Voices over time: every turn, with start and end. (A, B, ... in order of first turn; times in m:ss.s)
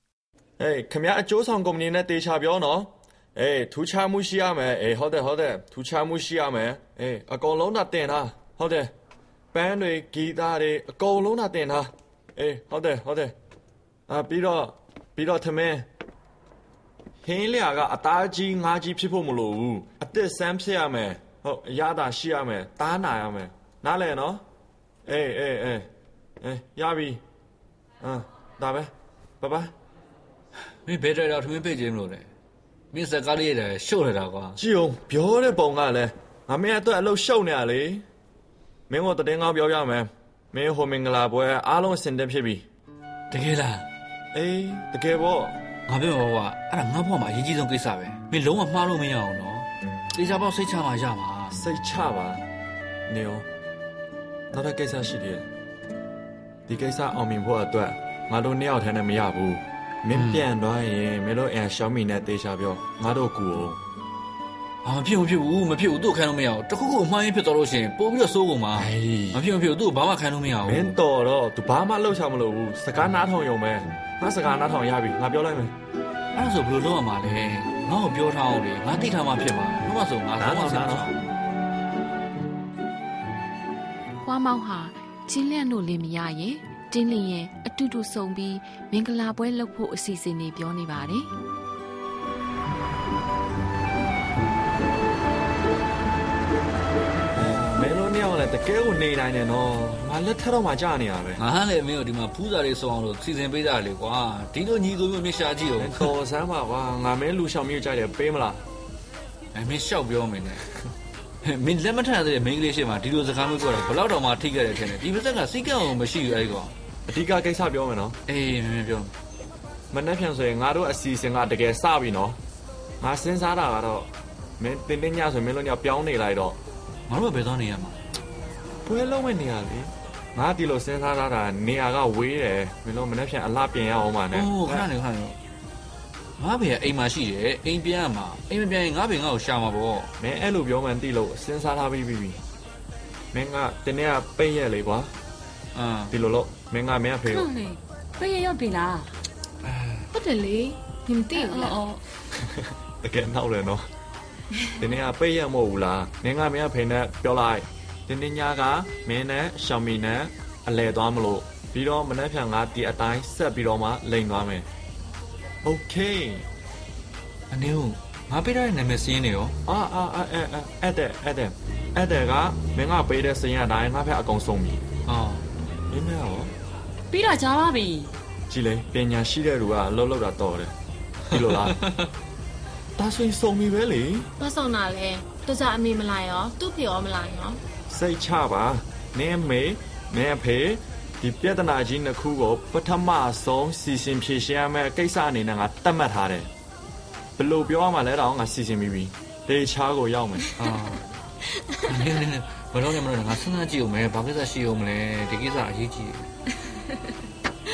0:00.6-0:08.9 A
0:09.5-0:13.3 A
0:14.1-0:15.8 A
0:17.2-0:24.4 A
0:25.0-0:25.9 A
0:26.4-0:27.2 A
0:28.0-0:29.7 A
0:30.8-0:32.3 B
0:32.9-0:34.6 B
0:34.6-0:38.0 A
0:38.9-0:42.6 A
0:43.3-0:43.9 B
0:44.3-0:45.5 A
0:45.9-0:51.6 B
0:51.5-0:52.4 A
0:53.1-0:53.4 A
0:54.5-0:55.5 A
0:56.7-1:03.8 A
1:00.1-1:00.5 B
1:04.8-1:11.0 B
1:08.7-1:09.4 A
1:10.6-1:15.7 A
1:16.3-1:21.2 B
1:20.4-1:21.1 A
1:24.2-1:31.3 C
1:37.3-1:41.4 A
1:41.4-1:46.1 B
1:45.8-1:48.6 A
1:49.5-1:50.6 B
1:51.4-1:56.7 B
1:57.1-1:58.2 A
1:58.3-1:59.1 B
1:59.9-2:02.4 A
2:03.0-2:06.6 A
2:07.1-2:08.0 B
2:08.8-2:14.8 A
2:14.3-2:15.4 B
2:16.4-2:20.1 B
2:20.2-2:22.4 A
2:23.3-2:25.1 A
2:25.7-2:26.1 B
2:26.1-2:27.5 A
2:27.3-2:29.1 D
2:29.6-2:30.1 B
2:30.1-2:31.8 E
2:31.3-2:32.0 D
2:32.4-2:33.8 A
2:34.8-2:44.7 A
2:45.6-2:46.4 A
2:47.5-2:49.5 B
2:49.6-2:54.8 A
2:55.0-2:55.4 B
2:55.9-2:56.5 A
2:57.1-2:58.1 D
2:58.5-3:00.7 A
3:01.3-3:01.8 A
3:01.4-3:02.1 B
3:03.0-3:04.3 A
3:04.4-3:07.6 E
3:07.9-3:16.5 A
3:17.4-3:20.4 A
3:20.6-3:21.0 B
3:21.8-3:26.3 B